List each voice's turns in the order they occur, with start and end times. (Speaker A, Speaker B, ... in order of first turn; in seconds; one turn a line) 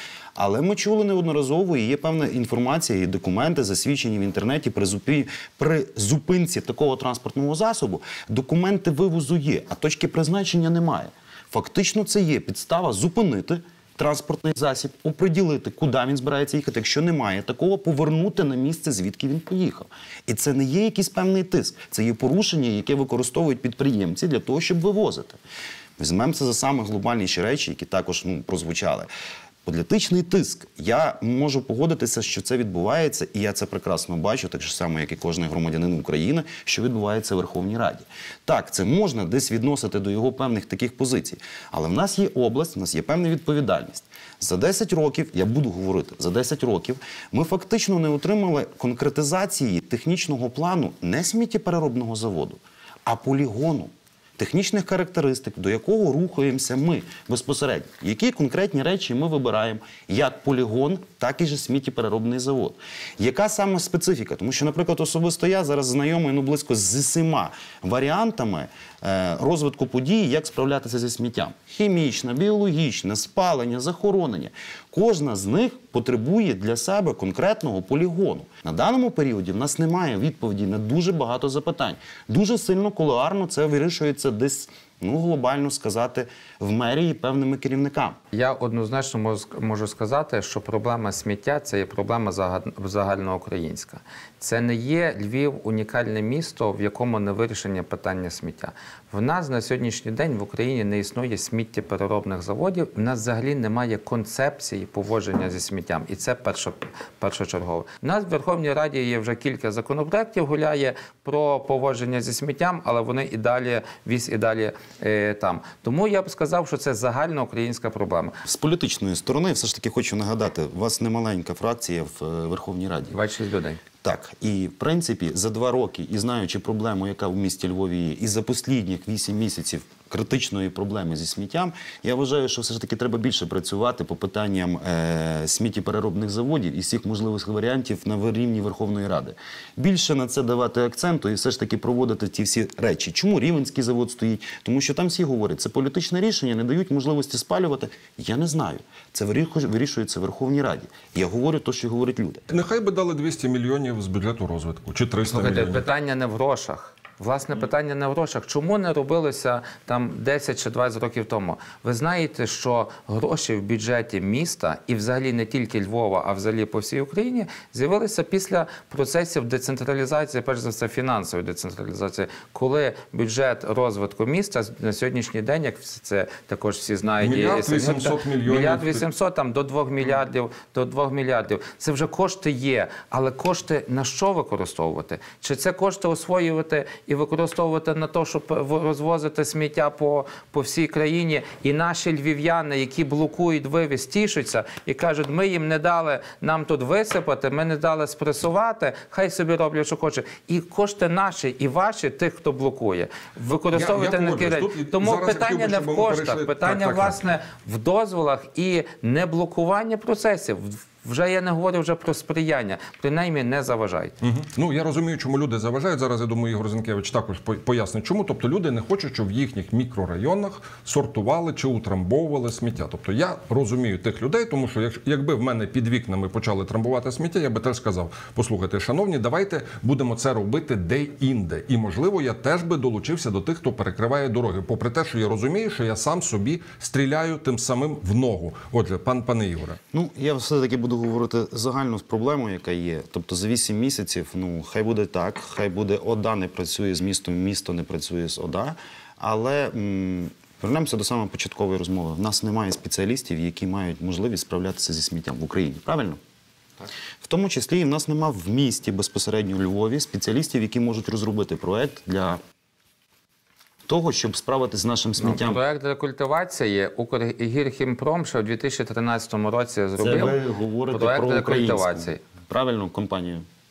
Speaker A: 0.3-25.4
Speaker A: 26.0-29.1
Speaker A: 29.6-88.2
Speaker B: 88.3-118.4
Speaker A: 118.5-123.2
Speaker B: 123.1-123.8
Speaker A: 124.0-152.4
Speaker C: 152.5-155.8
Speaker B: 155.2-214.1
Speaker C: 177.2-179.0
Speaker C: 203.7-207.2
Speaker C: 214.2-239.8
Speaker A: 239.9-256.2
Speaker A: 257.2-262.4
Speaker A: 263.9-265.6
Speaker B: 265.2-270.4
Speaker A: 270.0-273.4
Speaker B: 270.9-272.2